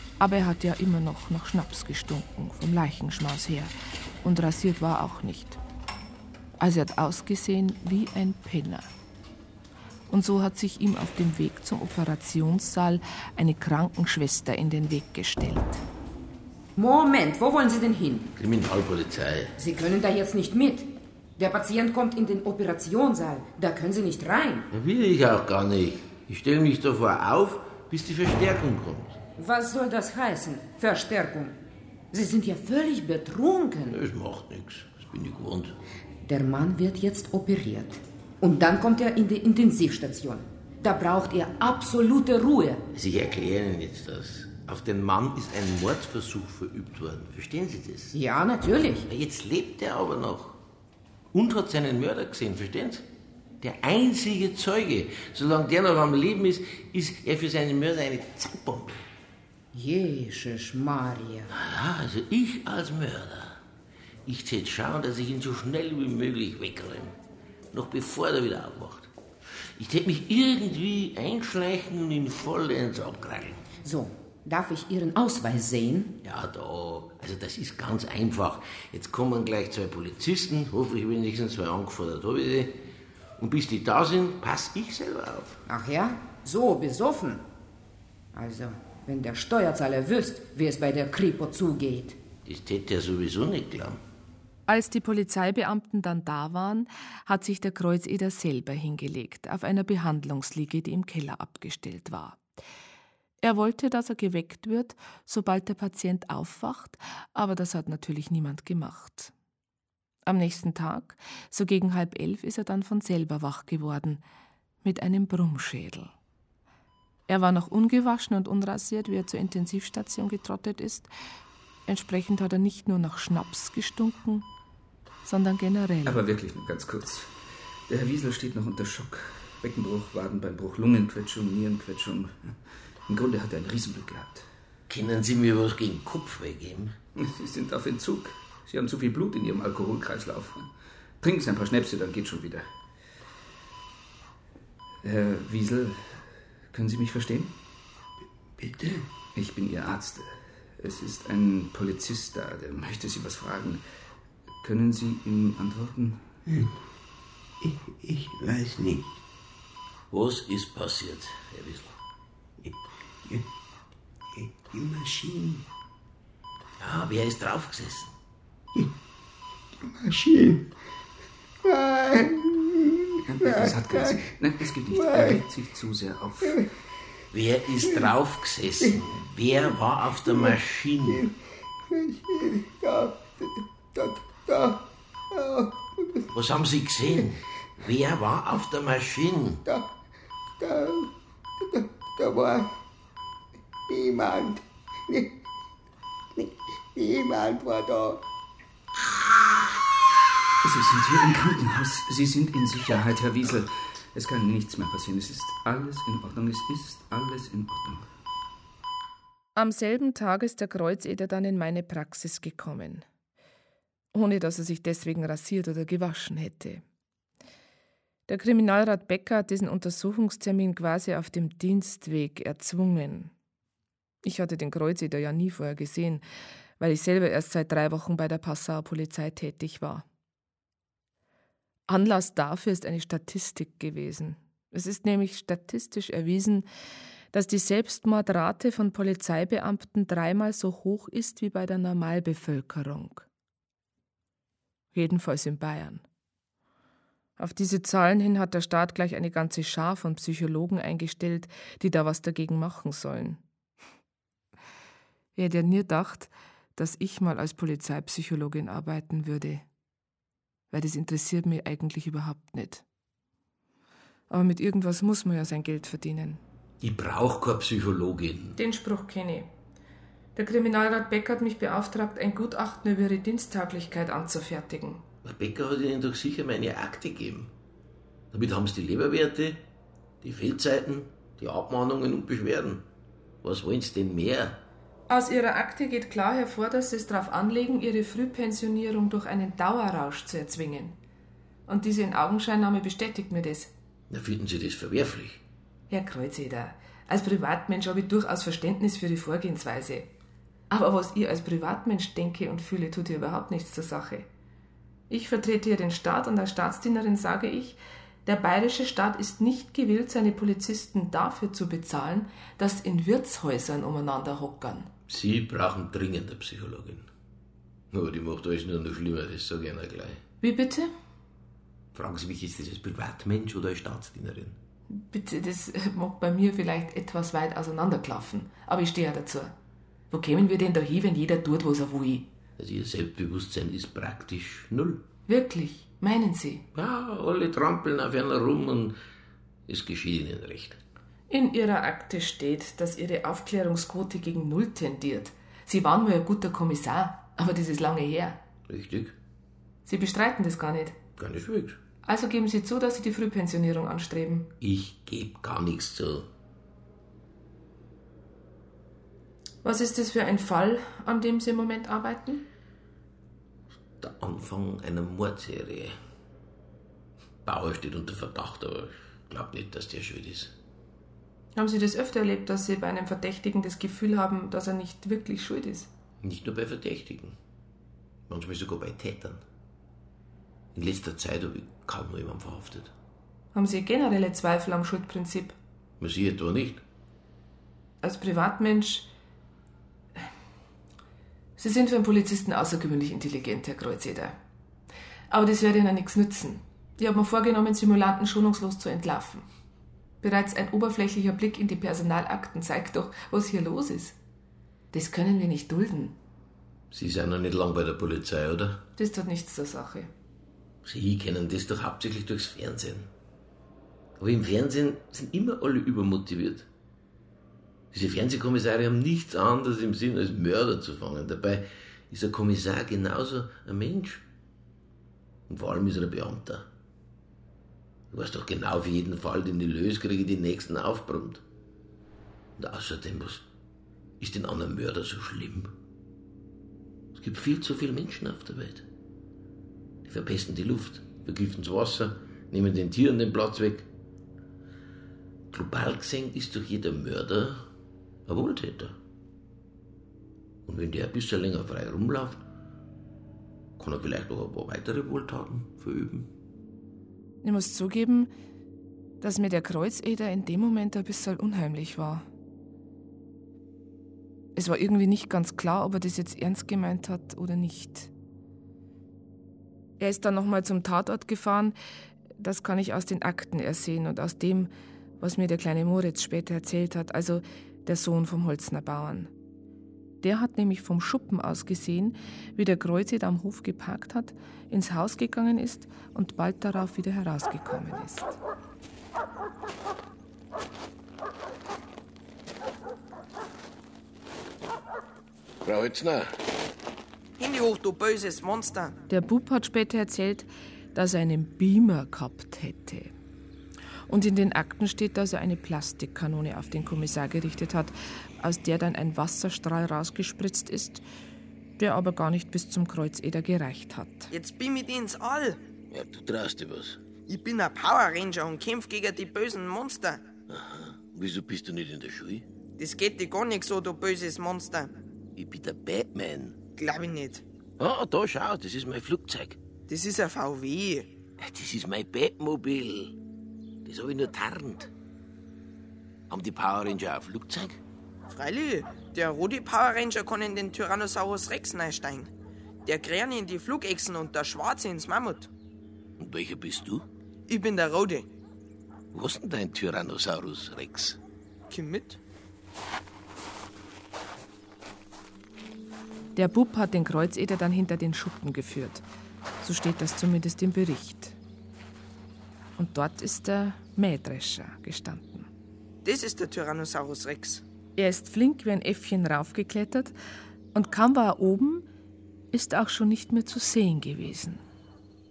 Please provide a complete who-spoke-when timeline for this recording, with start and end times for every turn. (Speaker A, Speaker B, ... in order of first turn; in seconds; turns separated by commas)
Speaker A: 0.2-5.6, Speaker A: 6.6-8.9, Speaker A: 10.1-15.8, Speaker B: 16.8-18.3, Speaker C: 18.4-19.5, Speaker B: 19.6-24.7, Speaker C: 24.7-29.2, Speaker B: 29.4-31.6, Speaker B: 32.1-34.0, Speaker C: 33.9-35.8, Speaker B: 36.2-42.8, Speaker C: 42.9-48.1, Speaker B: 48.1-49.1, Speaker C: 49.1-50.6, Speaker C: 51.3-53.0, Speaker C: 53.6-59.1, Speaker B: 59.7-61.5, Speaker C: 61.5-63.6, Speaker C: 64.3-67.2, Speaker C: 67.7-69.1, Speaker C: 69.6-73.6, Speaker B: 73.8-76.2, Speaker C: 76.2-82.8, Speaker C: 83.4-85.6, Speaker B: 85.7-87.4, Speaker B: 88.3-92.2, Speaker C: 92.5-94.0, Speaker A: 94.7-102.4, Speaker A: 103.4-109.3, Speaker A: 110.2-114.2, Speaker A: 114.8-116.1, Speaker A: 117.3-121.1, Speaker A: 121.9-124.5, Speaker A: 125.2-126.2, Speaker D: 126.0-127.3, Speaker D: 127.9-134.4, Speaker C: 134.9-136.9, Speaker D: 137.2-142.7, Speaker D: 145.0-147.6, Speaker D: 148.8-153.9, Speaker D: 154.6-156.3, Speaker E: 156.5-156.7, Speaker E: 157.6-159.1, Speaker C: 160.1-161.9, Speaker E: 164.3-165.7, Speaker C: 166.8-168.1, Speaker E: 169.8-170.7, Speaker E: 171.7-172.7, Speaker D: 173.3-176.6, Speaker E: 173.5-174.3, Speaker E: 174.9-175.4, Speaker C: 177.3-181.3, Speaker E: 181.9-186.2, Speaker C: 186.3-189.6, Speaker E: 189.7-189.9, Speaker E: 190.6-191.1, Speaker E: 191.6-192.7, Speaker E: 193.9-195.3, Speaker E: 196.4-198.2, Speaker D: 200.6-208.1, Speaker A: 209.6-213.1, Speaker A: 214.1-216.8, Speaker A: 218.3-223.3, Speaker A: 224.2-226.2, Speaker A: 226.8-230.1, Speaker A: 231.9-236.7, Speaker A: 237.3-243.3, Speaker A: 244.9-246.0, Speaker A: 247.4-253.4, Speaker A: 255.4-259.6, Speaker A: 260.7-262.8, Speaker A: 264.3-266.4, Speaker C: 266.8-268.6, Speaker A: 268.6-269.5, Speaker A: 270.4-275.0, Speaker C: 275.2-277.5, Speaker C: 278.3-279.6, Speaker C: 280.2-282.9, Speaker C: 283.4-284.6, Speaker A: 285.1-291.0, Speaker A: 291.7-293.7, Speaker C: 294.1-295.4, Speaker A: 295.9-300.1, Speaker A: 300.7-304.3, Speaker A: 305.1-314.9, Speaker C: 315.1-317.1, Speaker C: 317.9-320.2, Speaker A: 320.4-320.9, Speaker C: 321.9-324.6, Speaker A: 324.9-329.5, Speaker A: 330.1-332.3, Speaker C: 332.6-335.0, Speaker A: 335.3-336.6, Speaker C: 336.8-339.0, Speaker C: 339.7-340.8, Speaker A: 341.3-348.4, Speaker C: 348.7-349.2, Speaker A: 349.9-351.0, Speaker C: 351.2-351.8, Speaker A: 352.0-354.5, Speaker C: 354.6-356.3, Speaker A: 359.6-362.4, Speaker C: 364.0-366.0, Speaker C: 367.4-370.5, Speaker A: 371.6-375.9, Speaker C: 376.2-377.4, Speaker C: 378.3-379.4, Speaker C: 380.8-382.9, Speaker A: 383.5-385.6, Speaker C: 386.0-386.8, Speaker A: 388.0-389.1, Speaker A: 391.6-394.4, Speaker A: 395.3-399.5, Speaker A: 400.2-404.2, Speaker A: 404.9-406.1, Speaker C: 406.9-408.8, Speaker A: 409.0-410.1, Speaker C: 410.8-413.1, Speaker C: 414.2-416.7, Speaker C: 417.9-424.2, Speaker C: 425.5-426.7, Speaker C: 428.1-431.4, Speaker C: 432.6-433.4, Speaker C: 434.2-435.7, Speaker C: 437.1-438.9, Speaker C: 440.1-443.9, Speaker C: 445.5-447.7, Speaker C: 448.3-449.0, Speaker C: 450.7-452.4, Speaker C: 453.8-456.3, Speaker A: 457.4-458.3, Speaker A: 459.2-462.3, Speaker A: 464.6-468.1, Speaker A: 470.0-471.8, Speaker A: 472.4-479.3, Speaker A: 480.2-488.4, Speaker C: 495.6-496.3, Speaker F: 497.4-499.0, Speaker A: 499.1-503.1, Speaker A: 504.1-511.0, Speaker A: 511.8-514.3, Speaker F: 514.3-515.6, Speaker C: 515.9-517.0, Speaker F: 517.3-520.2, Speaker C: 520.5-522.5, Speaker F: 522.8-524.9, Speaker C: 525.4-526.6, Speaker F: 526.8-527.4, Speaker C: 527.8-529.6, Speaker F: 529.9-531.1, Speaker C: 531.4-533.1, Speaker C: 533.9-534.9, Speaker C: 536.3-537.8, Speaker F: 538.3-542.3, Speaker F: 542.9-545.5, Speaker C: 546.2-547.1, Speaker F: 547.5-548.3, Speaker C: 549.1-551.2, Speaker F: 551.7-552.2, Speaker A: 556.4-559.0, Speaker A: 559.6-561.4, Speaker A: 562.8-565.5, Speaker F: 566.0-567.6, Speaker A: 568.0-570.2, Speaker A: 570.7-571.9, Speaker A: 572.5-574.6